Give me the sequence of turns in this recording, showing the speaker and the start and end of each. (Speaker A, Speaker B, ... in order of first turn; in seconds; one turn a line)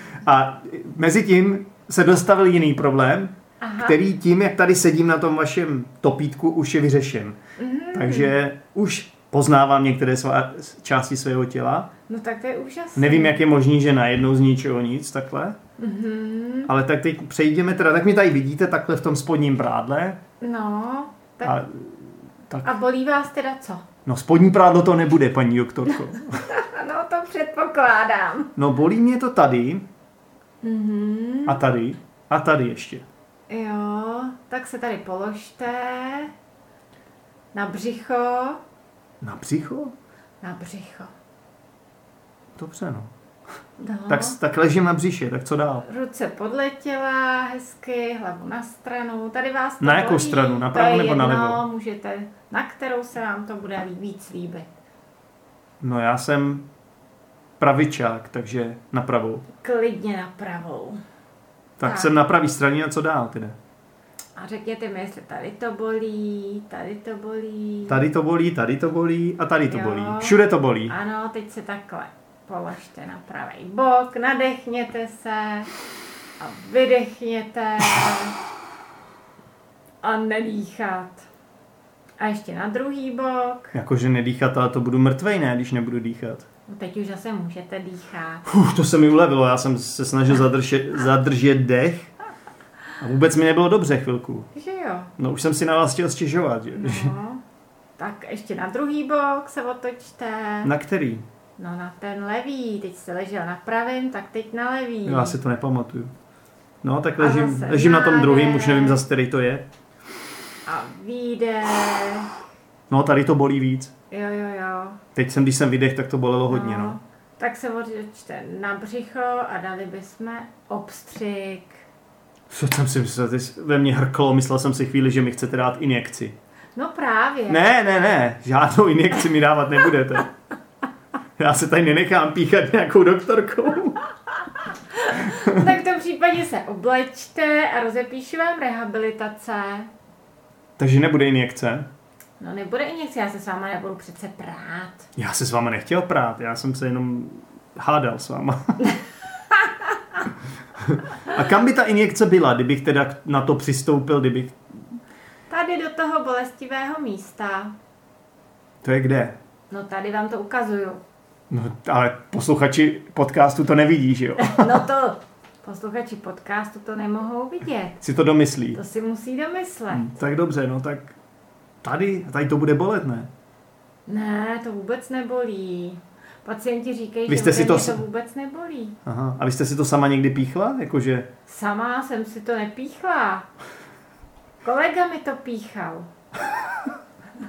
Speaker A: 0.2-7.4
Speaker B: 3.6-4.0
Speaker B: 7.6-8.3
Speaker A: 7.9-11.9
Speaker B: 12.1-13.4
Speaker A: 12.9-15.6
Speaker B: 15.8-16.7
Speaker A: 16.7-20.2
Speaker B: 20.4-21.6
Speaker A: 21.4-21.9
Speaker B: 22.5-23.8
Speaker A: 24.1-26.4
Speaker B: 25.9-28.5
Speaker A: 28.6-29.8
Speaker B: 30.6-31.6
Speaker A: 31.4-33.0
Speaker B: 33.5-36.3
Speaker B: 37.5-38.6
Speaker A: 39.2-39.9
Speaker B: 40.4-41.1
Speaker A: 42.6-43.1
Speaker B: 43.8-44.4
Speaker A: 44.1-45.9
Speaker B: 45.8-54.7
Speaker A: 49.8-51.6
Speaker A: 55.8-56.6
Speaker A: 57.6-59.4
Speaker B: 59.6-61.0
Speaker A: 61.8-63.5
Speaker B: 61.8-62.1
Speaker B: 64.3-68.0
Speaker A: 67.9-70.9
Speaker B: 69.7-75.7
Speaker B: 76.4-78.4
Speaker B: 80.0-81.2
Speaker B: 82.2-83.7
Speaker A: 83.7-86.5
Speaker B: 86.7-88.4
Speaker A: 88.5-92.1
Speaker A: 93.0-94.5
Speaker B: 94.5-95.1
Speaker A: 95.2-97.1
Speaker B: 96.8-97.4
Speaker B: 98.0-100.7
Speaker A: 100.6-101.2
Speaker B: 101.6-105.4
Speaker A: 105.0-106.1
Speaker A: 106.8-109.6
Speaker B: 107.2-109.0
Speaker B: 110.6-112.3
Speaker A: 112.9-113.9
Speaker B: 114.1-115.0
Speaker A: 115.1-117.0
Speaker B: 116.5-121.8
Speaker A: 122.5-126.3
Speaker B: 126.8-127.6
Speaker A: 127.5-130.3
Speaker A: 131.4-134.0
Speaker B: 134.9-139.9
Speaker A: 135.2-135.6
Speaker A: 140.8-141.9
Speaker B: 142.4-145.1
Speaker A: 145.2-148.8
Speaker B: 149.5-149.9
Speaker A: 150.8-154.6
Speaker B: 155.5-157.7
Speaker A: 158.8-159.3
Speaker B: 159.7-161.0
Speaker A: 161.5-164.8
Speaker B: 164.4-168.0
Speaker A: 168.0-168.8
Speaker B: 168.7-170.1
Speaker A: 169.9-171.1
Speaker A: 171.8-173.3
Speaker B: 174.1-178.9
Speaker A: 177.3-178.0
Speaker A: 179.0-181.3
Speaker B: 181.5-183.4
Speaker B: 184.6-186.1